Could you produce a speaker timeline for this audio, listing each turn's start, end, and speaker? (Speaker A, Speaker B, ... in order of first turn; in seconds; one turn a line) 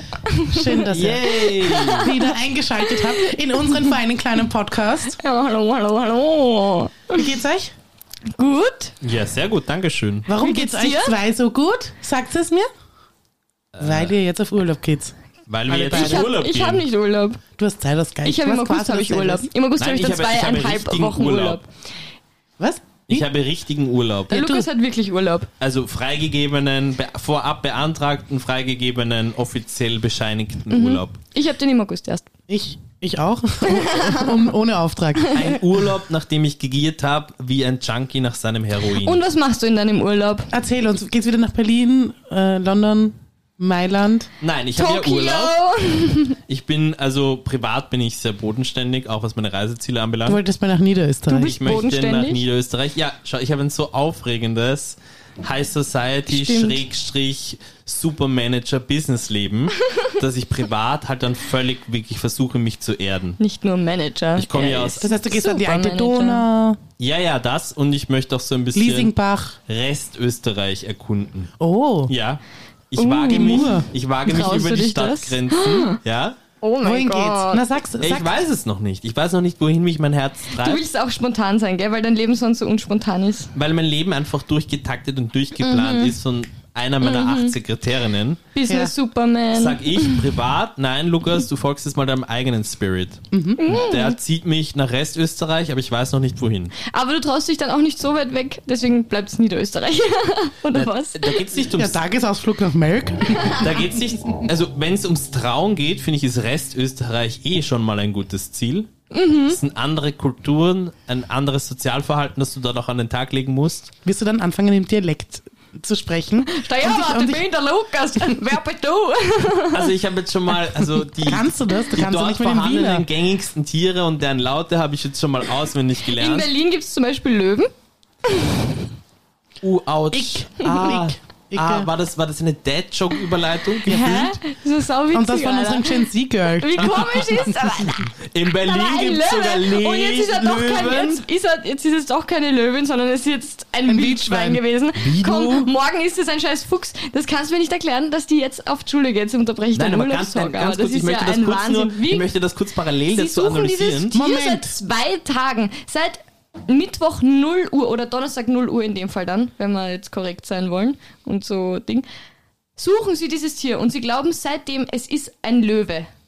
Speaker A: 0.2-2.1
Speaker B: 0.5-5.2
Speaker C: 0.9-2.1
Speaker A: 2.8-3.7
Speaker A: 5.1-7.3
Speaker B: 7.1-7.7
Speaker A: 8.3-9.0
Speaker C: 9.0-10.3
Speaker B: 10.3-12.7
Speaker A: 10.3-11.2
Speaker C: 13.7-14.1
Speaker B: 13.8-15.2
Speaker C: 15.5-16.9
Speaker B: 15.7-16.3
Speaker A: 15.9-17.4
Speaker B: 17.6-19.5
Speaker A: 18.2-21.7
Speaker C: 19.8-21.6
Speaker B: 22.6-23.0
Speaker C: 23.1-24.4
Speaker A: 24.3-25.5
Speaker B: 24.3-24.7
Speaker C: 25.6-31.2
Speaker A: 30.7-32.3
Speaker B: 32.5-35.6
Speaker A: 33.6-34.4
Speaker C: 35.3-39.2
Speaker A: 39.0-40.5
Speaker B: 40.5-44.3
Speaker C: 44.4-45.6
Speaker A: 44.8-46.4
Speaker C: 46.5-50.4
Speaker B: 50.3-51.6
Speaker A: 51.3-52.4
Speaker C: 51.3-63.4
Speaker A: 56.3-56.8
Speaker A: 63.4-66.5
Speaker C: 64.4-65.0
Speaker B: 65.0-66.8
Speaker C: 67.0-69.1
Speaker B: 68.7-69.6
Speaker C: 69.7-71.5
Speaker B: 71.6-72.1
Speaker C: 72.1-76.4
Speaker A: 73.0-76.0
Speaker B: 73.3-73.9
Speaker A: 76.6-77.7
Speaker B: 76.8-78.4
Speaker C: 78.0-80.8
Speaker A: 80.5-83.5
Speaker C: 83.5-88.4
Speaker A: 85.6-86.1
Speaker A: 87.0-87.5
Speaker A: 88.5-90.3
Speaker B: 88.7-88.9
Speaker C: 89.5-96.8
Speaker B: 93.3-93.6
Speaker A: 93.6-94.2
Speaker A: 96.8-101.4
Speaker C: 100.7-102.0
Speaker B: 101.7-103.7
Speaker C: 103.6-108.9
Speaker A: 109.1-109.6
Speaker C: 109.5-113.9
Speaker B: 114.0-117.5
Speaker A: 116.5-119.9
Speaker C: 119.7-126.5
Speaker B: 121.2-123.1
Speaker A: 126.2-127.7
Speaker A: 128.3-128.9
Speaker C: 129.6-134.4
Speaker B: 130.1-131.9
Speaker A: 133.8-138.1
Speaker B: 135.1-136.8
Speaker C: 136.7-141.2
Speaker A: 138.6-152.3
Speaker B: 143.9-144.6
Speaker C: 145.0-145.7
Speaker C: 149.8-154.2
Speaker A: 153.1-162.1
Speaker B: 154.1-154.8
Speaker A: 162.8-166.1